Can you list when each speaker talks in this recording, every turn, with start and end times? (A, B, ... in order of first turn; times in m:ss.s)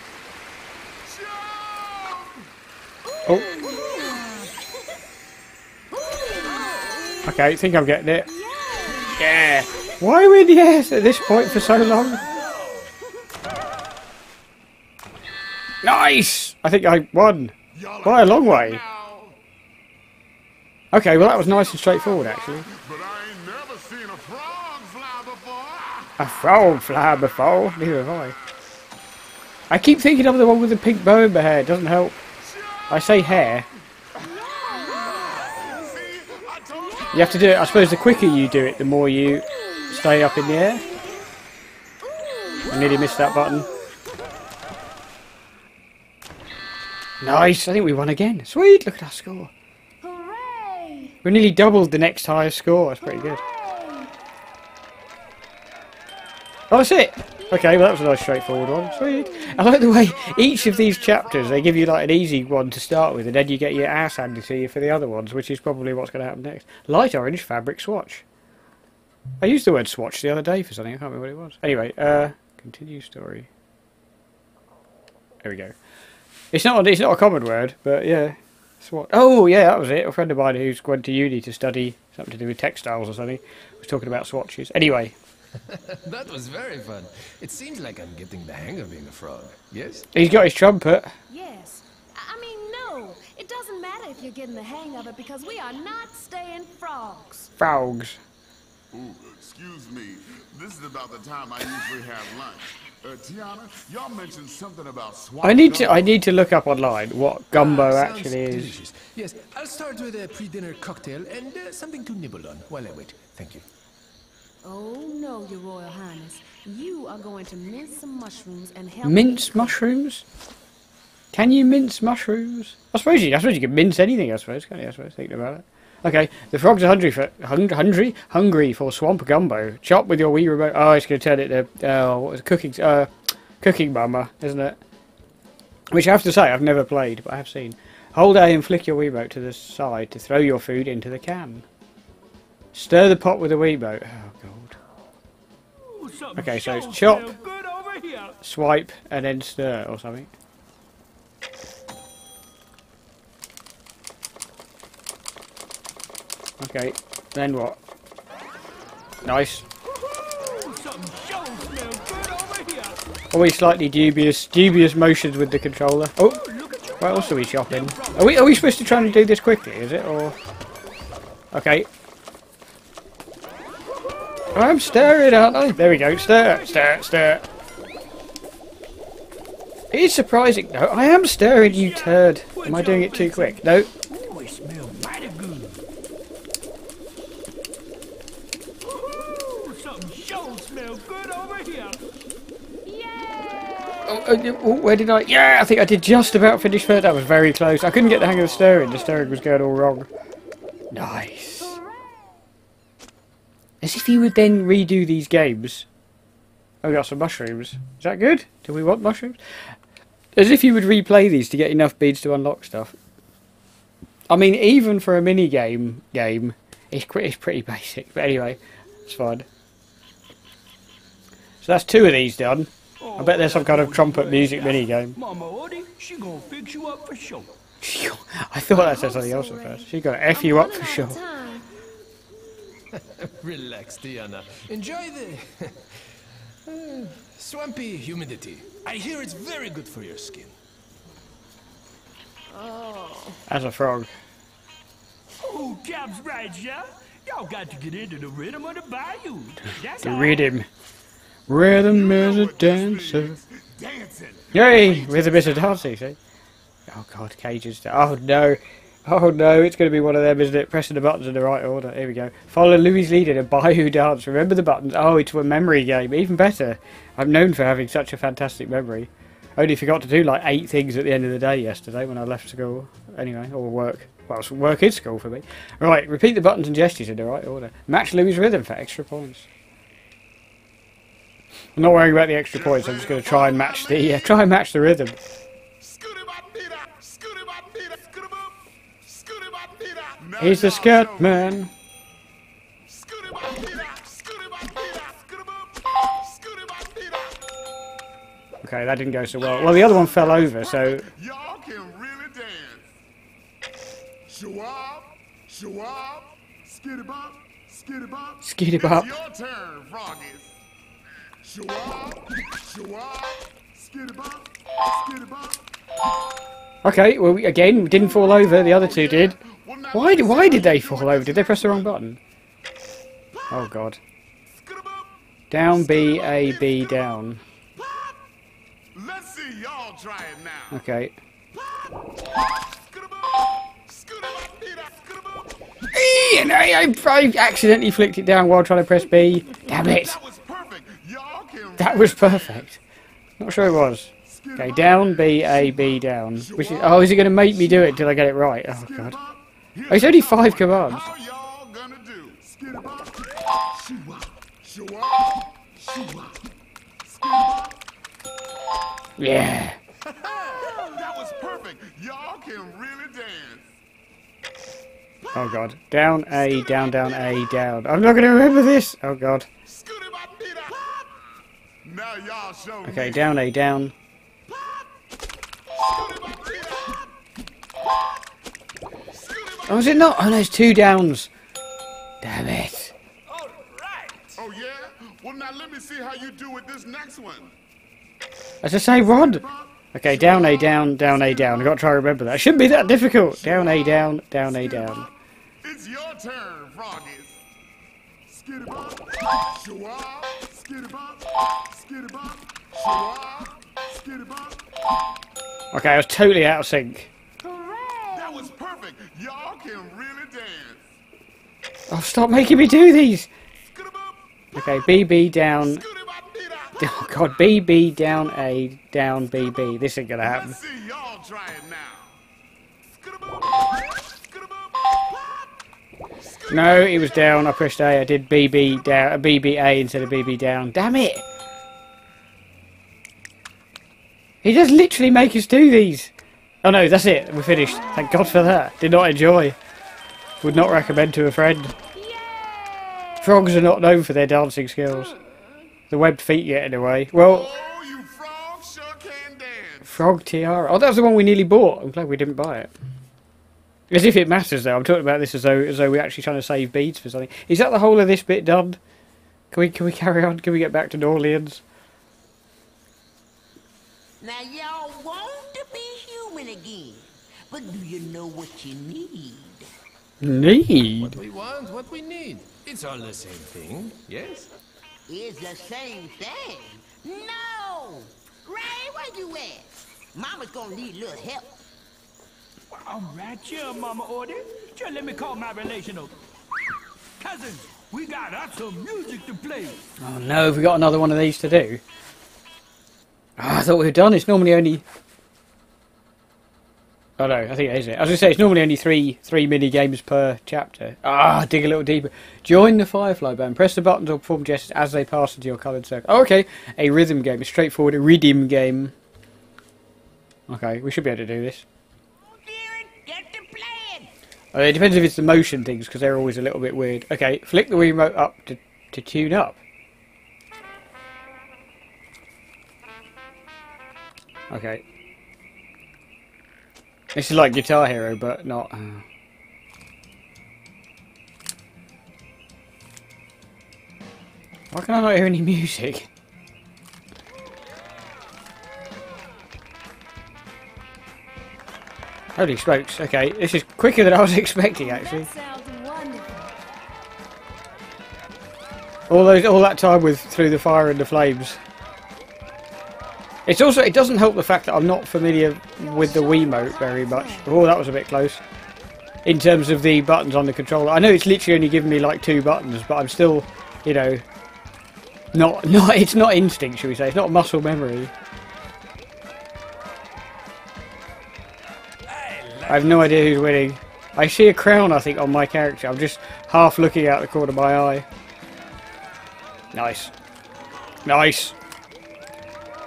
0:01.0-0:02.4 A
0:03.3-0:04.5 B
0:06.0-0:06.9 C
0:07.2-0:08.3 D
0:08.3-0:09.2 B
0:09.2-0:12.2 D
0:15.8-0:18.8 D
0:17.7-0:19.4 A
0:20.9-0:22.7 D
0:21.1-0:26.1 A
0:26.2-0:28.4 D
0:29.7-0:32.2 D
0:32.4-0:33.6 A
0:32.9-0:33.6 D
0:34.2-0:35.7 C
0:35.1-0:38.2 A
0:37.1-0:40.8 D
0:39.6-0:41.1 B
0:42.1-0:43.3 B
0:42.2-0:43.2 C
0:42.7-0:43.7 D
0:47.2-0:49.5 D
0:50.0-0:51.2 B
0:51.2-0:53.4 D
0:53.0-0:54.1 B
0:56.7-1:08.2 D
0:57.4-0:57.8 B
0:59.6-1:01.9 A
1:09.4-1:13.5 D
1:15.4-1:15.7 D
1:16.5-1:25.1 D
1:25.7-1:30.0 E
1:30.1-1:31.1 D
1:31.3-1:37.5 B
1:37.6-1:38.2 D
1:38.9-1:46.2 A
1:45.4-1:48.8 D
1:47.5-1:53.6 E
1:54.6-1:59.8 B
1:59.0-2:00.2 D
2:01.3-2:14.8 D
2:15.9-2:21.6 D
2:22.7-2:24.8 D
2:25.8-2:28.4 F
2:26.4-2:27.3 D
2:28.4-2:30.3 D
2:36.6-2:37.8 D
2:39.2-2:39.6 D
2:39.8-2:43.0 F
2:43.3-2:46.4 D
2:46.2-2:48.9 F
2:47.0-2:50.4 D
2:51.5-2:51.9 D
2:54.5-2:57.4 D
2:54.6-2:56.8 F
2:59.9-3:03.9 D
3:01.5-3:05.8 F
3:08.8-3:12.0 F
3:12.8-3:14.1 B
3:14.0-3:20.1 D
3:20.9-3:21.8 D
3:21.6-3:22.3 B
3:23.8-3:25.9 D
3:26.8-3:29.4 D
3:30.4-3:32.9 D
3:34.3-3:39.4 D
3:41.6-3:45.2 D
3:43.0-3:47.5 F
3:47.8-3:51.2 D
3:48.7-3:51.7 B
3:52.9-3:55.8 E
3:56.6-4:00.5 E
4:02.5-4:03.4 B
4:03.5-4:04.1 D
4:05.4-4:10.5 F
4:10.0-4:10.7 D
4:11.5-4:13.4 D
4:11.7-4:15.9 A
4:14.5-4:16.2 D
4:16.9-4:39.5 D
4:41.8-4:45.2 D
4:42.5-4:44.4 A
4:45.8-4:51.7 A
4:50.4-4:51.7 D
4:52.9-4:57.4 A
4:58.6-5:01.1 D
4:59.4-5:02.9 A
5:04.3-5:10.5 A
5:08.4-5:09.1 D
5:11.4-5:15.6 A
5:16.8-5:19.4 D
5:18.0-5:21.9 A
5:19.9-5:22.2 D
5:23.5-5:24.0 D
5:24.5-5:26.9 A
5:25.5-5:27.4 D
5:27.8-5:28.1 A
5:28.9-5:30.8 A
5:30.7-5:31.1 D
5:32.6-5:35.5 A
5:35.9-5:40.2 D
5:39.7-5:42.7 A
5:41.8-5:42.8 D
5:43.4-5:49.2 D
5:44.3-5:56.4 A
5:49.9-5:51.1 D
5:57.0-5:57.8 A
5:59.2-5:59.8 D
6:00.1-6:03.7 A
6:05.3-6:09.5 D
6:09.6-6:11.2 A
6:11.8-6:13.4 A
6:12.8-6:13.9 D
6:14.6-6:14.8 A
6:15.7-6:17.1 A
6:19.1-6:20.5 A
6:19.7-6:21.3 D
6:22.2-6:22.9 D
6:23.3-6:24.3 E
6:24.4-6:27.5 A
6:28.6-6:35.1 D
6:28.9-6:31.7 A
6:32.6-6:35.1 A
6:35.6-6:37.4 A
6:38.3-6:44.6 A
6:45.7-6:47.1 D
6:47.4-6:48.5 B
6:48.1-6:50.8 A
6:51.9-6:53.3 D
6:53.7-6:54.2 A
6:54.5-6:55.8 D
6:55.4-6:57.4 A
6:56.8-7:00.6 D
7:00.2-7:02.2 A
7:02.9-7:05.5 A
7:06.3-7:07.2 A
7:06.5-7:11.2 D
7:14.4-7:16.1 D
7:16.6-7:19.6 D
7:20.4-7:21.7 D
7:20.4-7:20.8 B
7:21.9-7:23.6 B
7:23.2-7:25.1 D
7:25.9-7:27.5 D
7:27.1-7:30.0 A
7:29.8-7:32.7 D
7:33.9-7:38.8 D
7:39.5-7:41.6 D
7:44.2-7:49.7 C
7:50.2-7:51.2 D
7:51.0-7:54.5 E
7:55.1-8:01.6 C
8:02.7-8:06.2 F
8:07.2-8:09.8 F
8:10.0-8:11.8 D
8:13.4-8:14.8 D
8:17.2-8:28.9 D
8:30.5-8:31.6 D
8:32.3-8:34.1 C
8:34.5-8:39.6 D
8:44.5-8:44.8 D
8:47.1-8:49.0 D
8:54.7-8:56.1 D
9:02.4-9:05.3 D
9:04.8-9:06.5 B
9:09.1-9:11.6 D
9:13.4-9:18.4 D
9:15.8-9:17.5 B
9:19.2-9:24.2 D
9:25.3-9:28.1 D
9:32.1-9:33.0 F
9:32.7-9:38.0 D
9:39.7-9:40.1 D
9:41.0-9:41.5 D